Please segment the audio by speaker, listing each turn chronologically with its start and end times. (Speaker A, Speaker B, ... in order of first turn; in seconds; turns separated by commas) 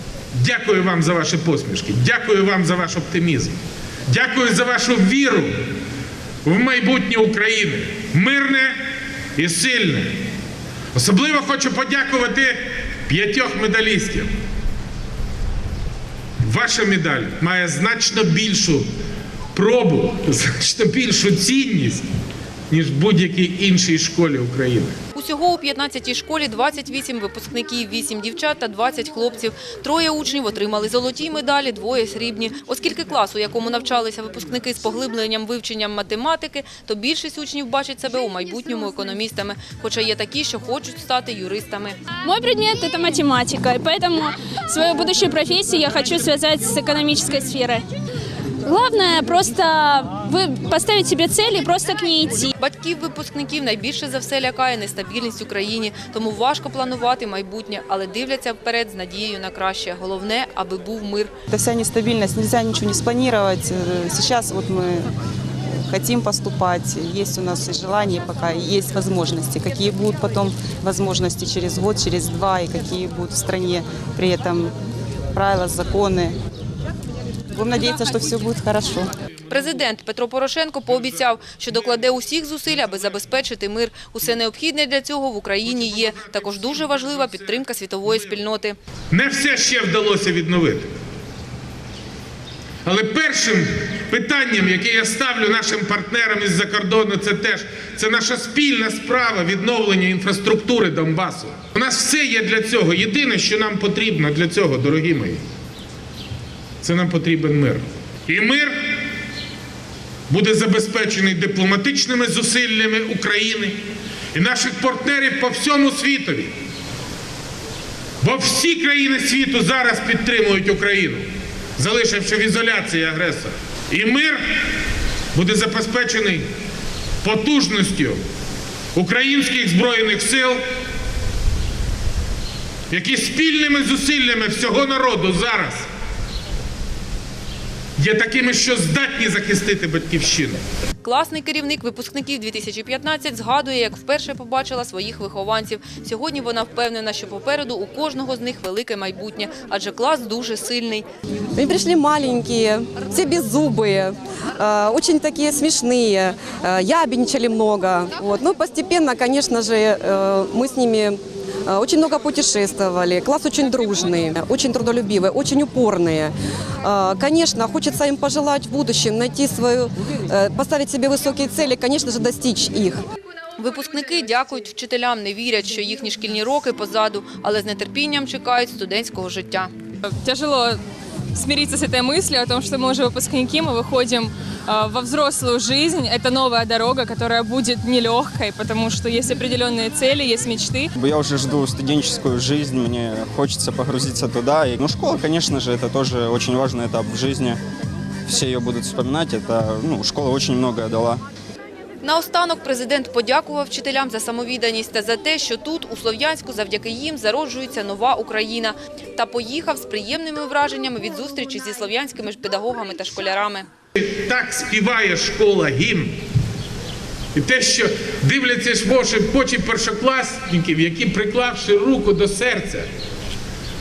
Speaker A: 0.3-5.5, Speaker A: 6.4-8.8, Speaker A: 9.3-10.1, Speaker A: 10.9-14.3, Speaker A: 16.4-18.9, Speaker A: 19.5-22.1, Speaker A: 22.7-24.9, Speaker B: 25.1-42.0, Speaker C: 42.2-47.9, Speaker C: 48.6-52.5, Speaker B: 52.5-61.3, Speaker D: 61.5-65.1, Speaker D: 65.9-74.7, Speaker D: 75.3-76.3, Speaker D: 77.5-79.1, Speaker B: 79.5-88.8, Speaker A: 89.1-90.9, Speaker A: 92.8-105.4, Speaker A: 106.8-108.8, Speaker A: 110.3-113.8, Speaker A: 114.3-116.5, Speaker A: 118.2-121.2, Speaker A: 121.8-124.4, Speaker A: 125.3-126.5, Speaker A: 127.2-128.2, Speaker A: 128.9-130.6, Speaker A: 132.9-135.9, Speaker A: 138.0-140.6, Speaker B: 141.0-151.1, Speaker E: 151.5-173.0, Speaker B: 173.6-179.7, Speaker F: 180.1-180.8, Speaker F: 181.3-190.9, Speaker G: 190.9-197.6, Speaker G: 198.3-201.2, Speaker B: 202.0-213.7, Speaker A: 213.9-216.2, Speaker A: 217.3-222.9